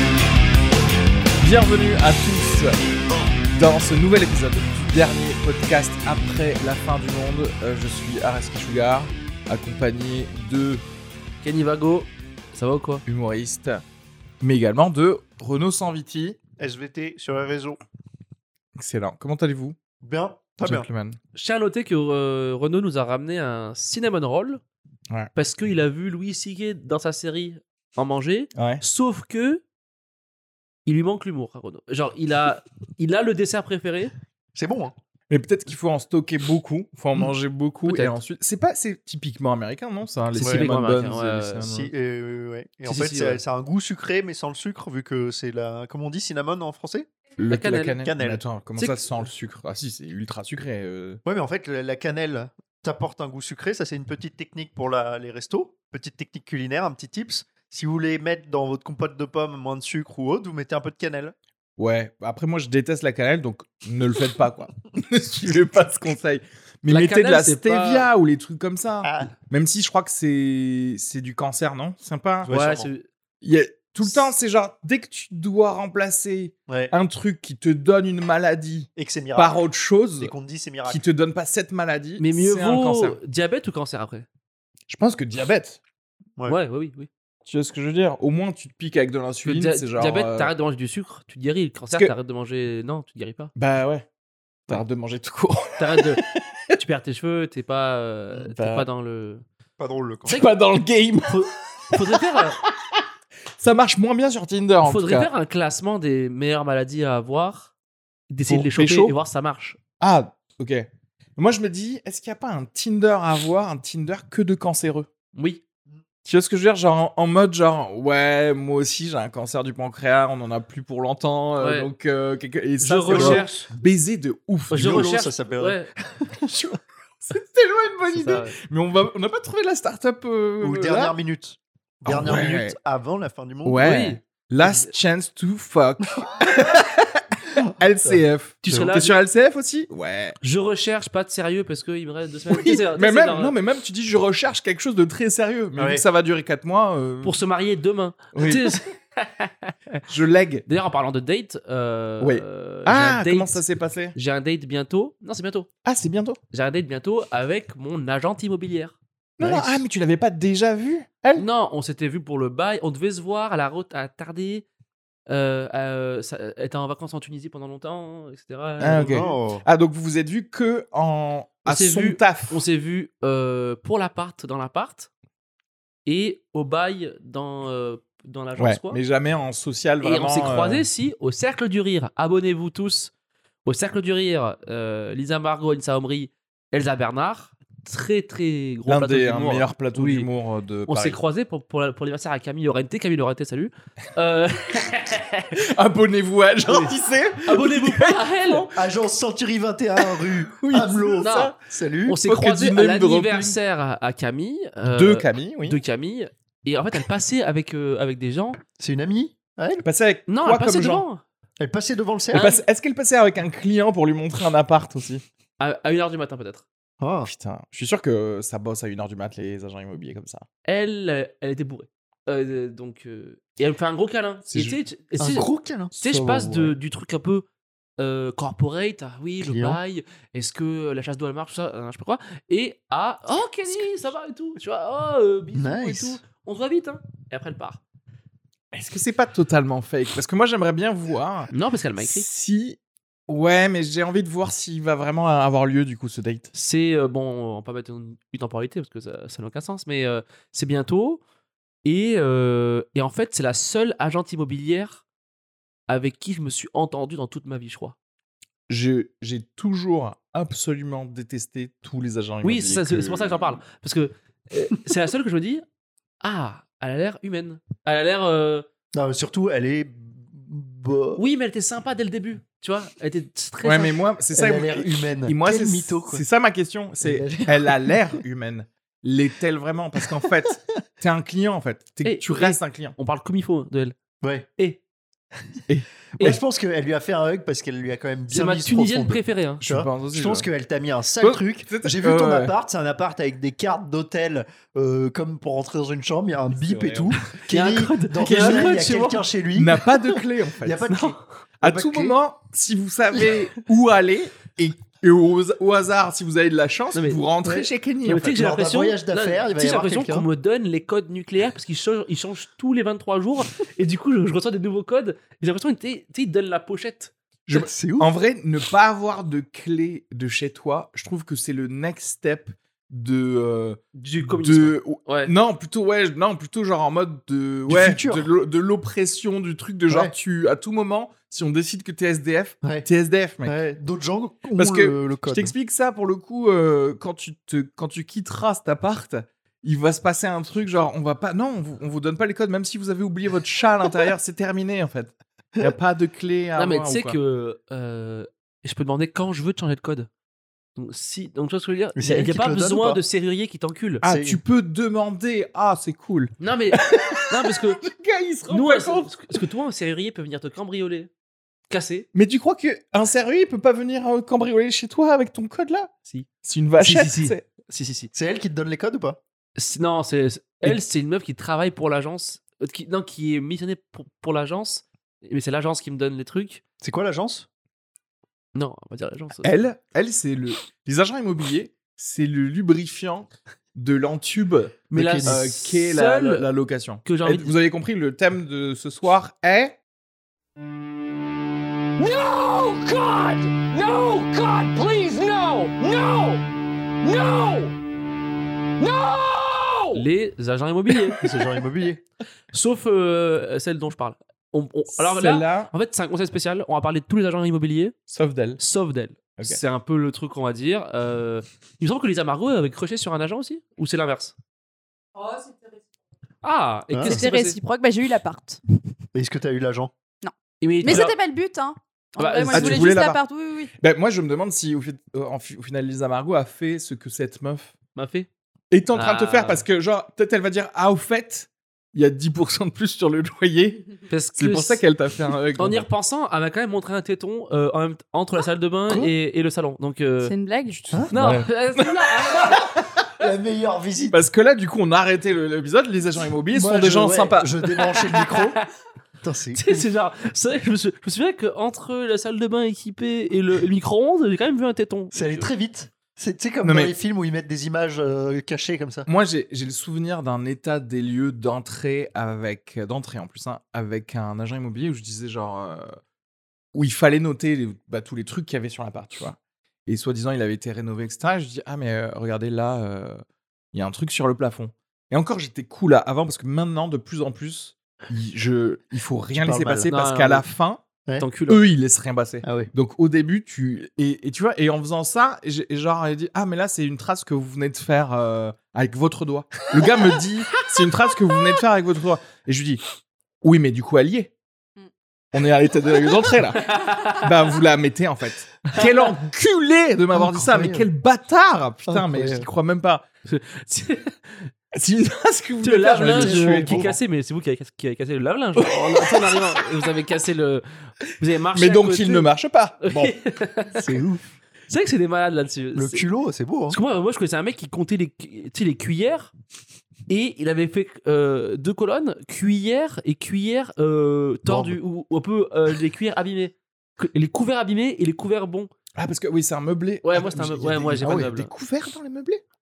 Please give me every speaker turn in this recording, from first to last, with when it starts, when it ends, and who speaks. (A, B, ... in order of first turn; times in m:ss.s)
0:01.4-0:02.8 A
0:03.5-0:10.8 A
0:11.4-0:13.0 B
0:13.0-0:13.8 A
0:14.4-0:16.4 A
0:16.6-0:17.8 C
0:18.8-0:19.8 A
0:20.0-0:20.9 C
0:20.6-0:21.2 A
0:21.3-0:24.6 B
0:25.3-0:29.6 B
0:28.5-0:28.8 A
0:30.8-0:34.1 B
0:34.5-0:34.9 C
0:35.3-0:41.9 A
0:37.9-0:38.2 B
0:40.3-0:41.7 B
0:40.4-0:40.7 C
0:41.6-0:47.1 C
0:42.8-0:43.4 B
0:47.4-0:51.2 A
0:47.5-0:48.0 B
0:48.0-0:48.4 C
0:48.8-0:49.0 B
0:51.2-1:01.3 C
1:01.8-1:12.5 A
1:06.9-1:08.1 B
1:09.0-1:09.3 C
1:12.4-1:12.9 C
1:12.4-1:13.0 B
1:13.4-1:20.3 A
1:16.7-1:16.9 C
1:19.0-1:19.6 C
1:20.2-1:21.0 C
1:20.8-1:23.2 A
1:22.2-1:24.2 B
1:24.9-1:25.8 A
1:26.5-1:27.1 B
1:27.4-1:30.5 A
1:29.4-1:33.5 B
1:33.6-1:34.0 A
1:34.7-1:36.8 A
1:35.8-1:36.2 B
1:36.8-1:39.4 B
1:38.4-1:38.9 A
1:39.8-1:40.5 C
1:40.3-1:43.0 A
1:41.2-1:42.6 B
1:43.6-1:45.3 A
1:44.8-1:47.7 B
1:48.3-1:49.8 B
1:48.5-1:49.1 A
1:50.0-1:55.1 A
1:55.3-1:55.6 B
1:56.2-2:05.2 A
2:01.6-2:01.9 B
2:02.8-2:03.7 B
2:03.1-2:03.6 C
2:04.7-2:05.9 B
2:04.8-2:06.6 C
2:06.5-2:11.1 A
2:08.1-2:08.5 B
2:10.6-2:13.9 C
2:12.0-2:12.7 A
2:13.6-2:20.4 A
2:13.8-2:14.9 B
2:17.6-2:18.2 C
2:18.6-2:19.2 B
2:20.4-2:23.5 B
2:22.5-2:27.3 A
2:25.8-2:26.0 C
2:27.2-2:30.0 B
2:28.3-2:28.8 A
2:30.1-2:30.6 A
2:30.6-2:35.7 B
2:32.2-2:34.1 A
2:35.8-2:36.4 A
2:36.5-2:39.0 B
2:39.4-2:41.4 A
2:39.4-2:39.8 C
2:41.3-2:44.6 B
2:45.3-2:49.4 B
2:48.8-2:52.6 A
2:48.9-2:49.6 C
2:51.6-2:55.1 B
2:56.0-2:59.0 B
2:58.6-3:00.8 A
3:00.0-3:03.1 B
3:03.6-3:10.3 B
3:08.9-3:11.2 A
3:10.9-3:15.6 B
3:15.5-3:18.7 A
3:16.6-3:16.9 B
3:17.4-3:18.7 B
3:18.7-3:22.2 C
3:20.0-3:21.5 A
3:21.2-3:21.5 B
3:22.0-3:28.6 B
3:22.2-3:23.6 A
3:24.9-3:25.8 A
3:28.8-3:29.8 C
3:29.8-3:31.0 A
3:30.3-3:31.2 B
3:31.6-3:32.5 C
3:32.3-3:32.6 B
3:32.3-3:35.2 A
3:35.6-3:36.6 B
3:37.0-3:37.3 C
3:37.2-3:40.4 A
3:40.6-3:47.4 B
3:44.5-3:44.8 A
3:45.2-3:46.7 C
3:48.0-3:57.8 B
3:49.4-3:49.8 C
3:55.5-3:56.2 C
3:58.7-4:06.5 A
4:01.5-4:02.2 B
4:06.5-4:11.2 B
4:11.8-4:15.0 B
4:15.9-4:18.0 B
4:18.7-4:23.6 A
4:22.4-4:25.6 B
4:26.2-4:28.6 B
4:28.9-4:31.2 C
4:31.2-4:34.0 B
4:33.6-4:43.0 A
4:34.3-4:36.2 C
4:37.0-4:38.0 C
4:42.0-4:44.0 B
4:44.2-4:44.5 C
4:45.7-4:46.4 A
4:46.2-5:02.1 C
4:48.3-4:49.6 B
4:49.6-4:50.5 A
4:51.2-4:52.5 A
4:56.5-4:57.2 A
4:57.4-4:59.2 B
4:58.2-4:58.7 A
4:59.5-5:00.9 A
5:00.9-5:01.2 B
5:01.6-5:08.4 A
5:06.9-5:07.2 B
5:07.4-5:07.7 C
5:08.0-5:17.1 B
5:08.3-5:10.3 C
5:17.5-5:33.5 A
5:17.5-5:18.1 C
5:23.9-5:25.3 B
5:27.7-5:28.3 C
5:33.4-5:35.5 C
5:34.6-5:47.2 A
5:46.6-5:50.1 B
5:50.8-5:54.0 B
5:52.0-5:53.0 C
5:54.0-5:59.4 A
5:54.0-5:54.4 C
5:56.4-5:57.8 B
5:58.5-6:01.1 B
6:01.7-6:02.0 B
6:02.1-6:07.4 A
6:06.8-6:08.1 B
6:08.1-6:09.2 C
6:09.6-6:16.6 B
6:16.8-6:17.4 C
6:18.5-6:19.6 B
6:19.4-6:29.8 A
6:24.9-6:26.5 B
6:24.9-6:25.4 C
6:27.0-6:27.5 B
6:32.0-6:36.4 D
6:37.0-6:37.7 D
6:38.8-6:40.0 D
6:39.9-6:41.2 B
6:41.2-6:42.0 C
6:42.5-6:47.9 B
6:44.9-6:45.7 A
6:48.1-6:48.6 A
6:48.6-6:54.3 B
6:55.2-6:55.8 D
6:56.4-6:57.6 B
6:56.9-6:57.2 C
6:57.1-6:58.5 D
6:57.1-6:58.6 E
6:59.1-6:59.9 C
7:00.6-7:01.2 B
7:00.8-7:01.2 D
7:00.8-7:03.6 E
7:02.2-7:02.8 B
7:02.2-7:03.7 D
7:02.5-7:03.2 A
7:03.8-7:07.7 A
7:08.0-7:08.3 B
7:08.7-7:15.8 A
7:08.9-7:09.6 B
7:14.1-7:14.8 B
7:15.6-7:20.4 B
7:20.2-7:20.8 D
7:20.3-7:20.7 E
7:20.8-7:23.2 A
7:21.1-7:22.7 B
7:22.4-7:24.2 C
7:24.1-7:27.8 A
7:26.5-7:28.6 C
7:27.8-7:28.6 B
7:29.2-7:29.9 C
7:29.5-7:35.5 B
7:35.1-7:39.1 C
7:36.6-7:36.9 A
7:39.1-7:46.0 A
7:46.7-7:53.2 A
7:53.7-8:00.8 A
7:59.3-7:59.9 C
7:59.9-8:00.4 B
8:01.2-8:01.6 B
8:01.5-8:12.8 A
8:02.4-8:02.7 C
8:13.4-8:14.3 A
8:15.3-8:23.0 A
8:16.5-8:17.3 B
8:20.1-8:20.9 C
8:21.9-8:22.5 C
8:23.2-8:24.4 B
8:24.7-8:26.8 A
8:25.6-8:32.3 B
8:26.0-8:27.0 C
8:28.6-8:29.6 A
8:31.5-8:33.1 A
8:32.8-8:34.0 B
8:33.7-8:34.3 C
8:34.7-8:36.0 B
8:35.7-8:36.8 C
8:36.7-8:39.3 B
8:40.1-8:48.7 B
8:44.5-8:44.8 C
8:49.0-8:52.4 A
8:50.0-8:51.5 B